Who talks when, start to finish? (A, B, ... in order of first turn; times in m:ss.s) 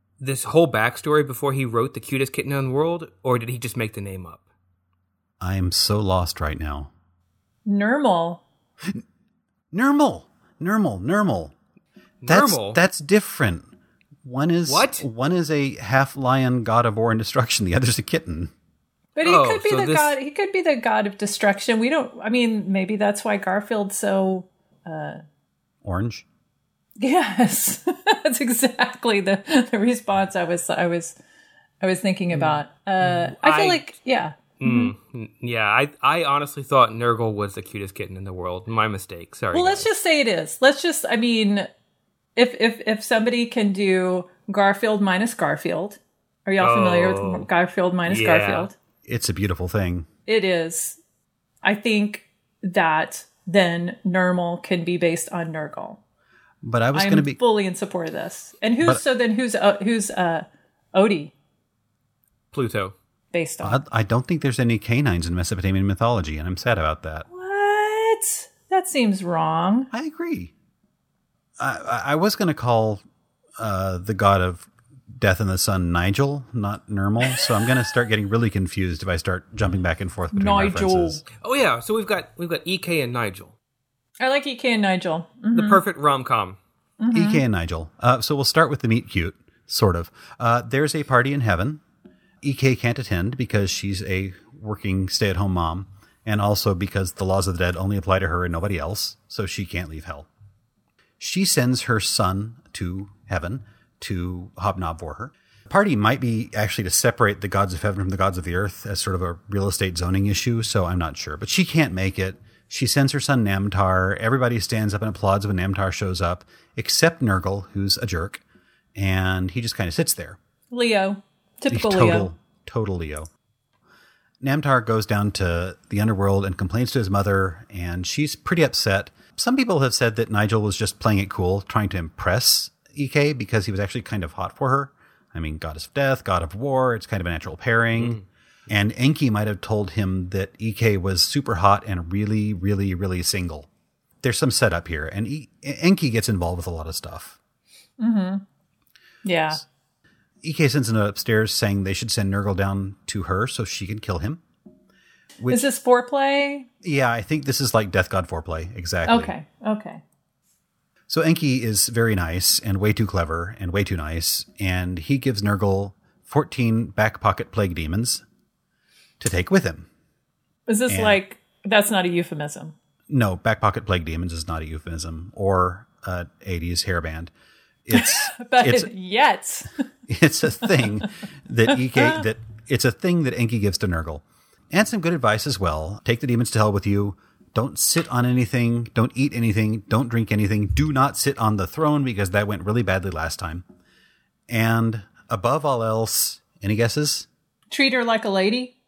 0:00.2-0:04.4 A
0:05.4-0:06.9 B
0:07.6-0:08.4 C
0:09.7-0:11.5 B
0:12.2-0:12.8 A
0:12.3-0:13.7 B
0:14.2-0:18.5 B
0:14.7-0:15.0 A
0:19.1-0:25.2 C
0:19.2-0:20.2 A
0:25.8-0:26.2 B
0:27.0-0:31.2 C
0:31.8-0:34.9 C
0:32.3-0:33.9 A
0:34.6-0:39.8 A
0:39.5-0:41.7 C
0:42.4-0:48.7 C
0:46.6-0:47.5 A
0:48.1-0:48.7 A
0:49.0-0:50.1 B
0:50.3-0:51.0 C
0:51.6-0:56.0 C
0:56.6-0:57.4 B
0:56.9-1:01.3 C
1:02.5-1:02.9 A
1:03.3-1:03.8 C
1:03.6-1:07.2 B
1:07.3-1:09.9 C
1:09.9-1:10.5 B
1:11.6-1:13.0 B
1:13.6-1:21.2 B
1:20.3-1:21.2 C
1:21.4-1:23.5 A
1:24.2-1:25.8 C
1:25.5-1:26.6 A
1:27.0-1:27.4 C
1:27.1-1:31.8 B
1:32.4-1:40.3 B
1:41.2-1:58.4 B
1:59.0-2:00.4 B
2:00.7-2:02.3 C
2:01.7-2:03.3 B
2:04.4-2:23.7 B
2:18.0-2:18.2 A
2:24.2-2:27.4 B
2:28.0-2:28.4 C
2:29.2-2:29.6 C
2:30.4-2:34.4 B
2:35.4-2:35.7 B
2:35.5-2:36.7 C
2:36.8-2:39.3 B
2:39.0-2:40.0 C
2:41.1-2:48.2 B
2:49.2-2:49.9 B
2:50.7-2:52.8 C
2:50.9-2:51.2 B
2:53.1-2:57.3 B
2:57.8-2:58.9 B
2:57.9-2:59.7 C
3:00.1-3:13.6 B
3:01.9-3:02.2 C
3:14.5-3:17.3 B
3:17.7-3:18.7 C